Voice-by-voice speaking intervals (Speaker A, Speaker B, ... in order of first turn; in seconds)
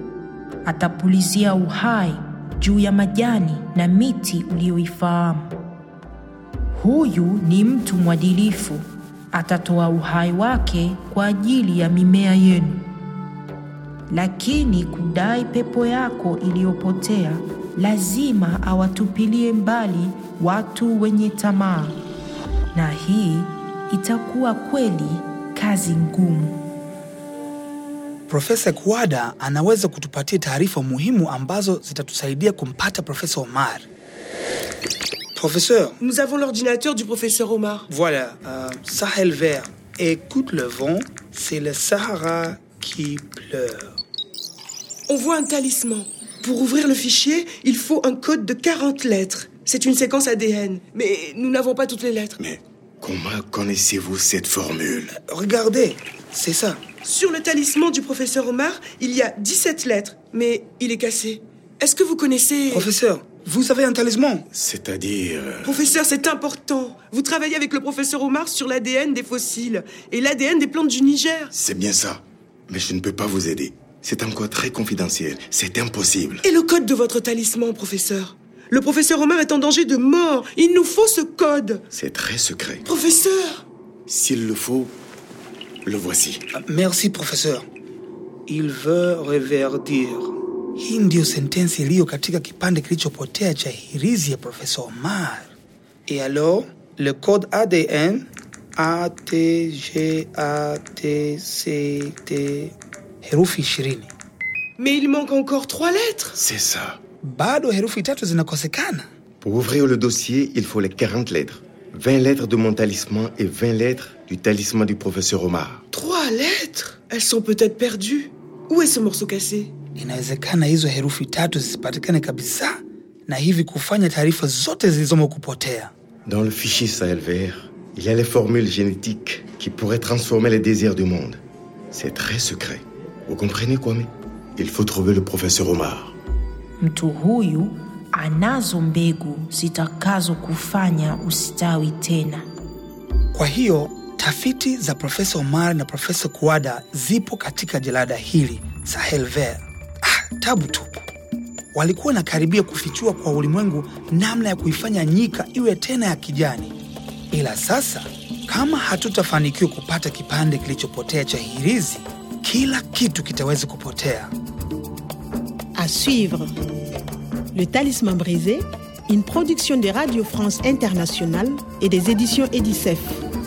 Speaker A: 0.6-5.5, 6.7-12.8, 14.1-22.0, 22.7-26.6, 136.8-142.4
Speaker B: 28.3-33.9, 35.3-36.0, 37.9-44.0, 55.1-56.8, 62.7-64.5, 86.5-87.6, 88.5-95.5, 96.1-104.1, 107.2-109.0, 120.0-122.7, 123.3-125.9, 143.3-151.0, 151.7-156.7, 157.3-164.3
Speaker C: 36.0-37.9, 45.1-52.4, 57.0-62.9, 65.6-71.5, 76.4-81.8, 82.8-83.6, 104.8-106.4, 115.9-119.7
Speaker D: 52.4-55.1, 64.5-65.8, 71.5-76.4, 81.9-82.8, 84.1-84.9, 85.8-86.4, 106.4-107.0, 109.4-115.8, 126.2-131.4, 131.9-136.1
Speaker E: 165.7-166.5, 167.5-173.2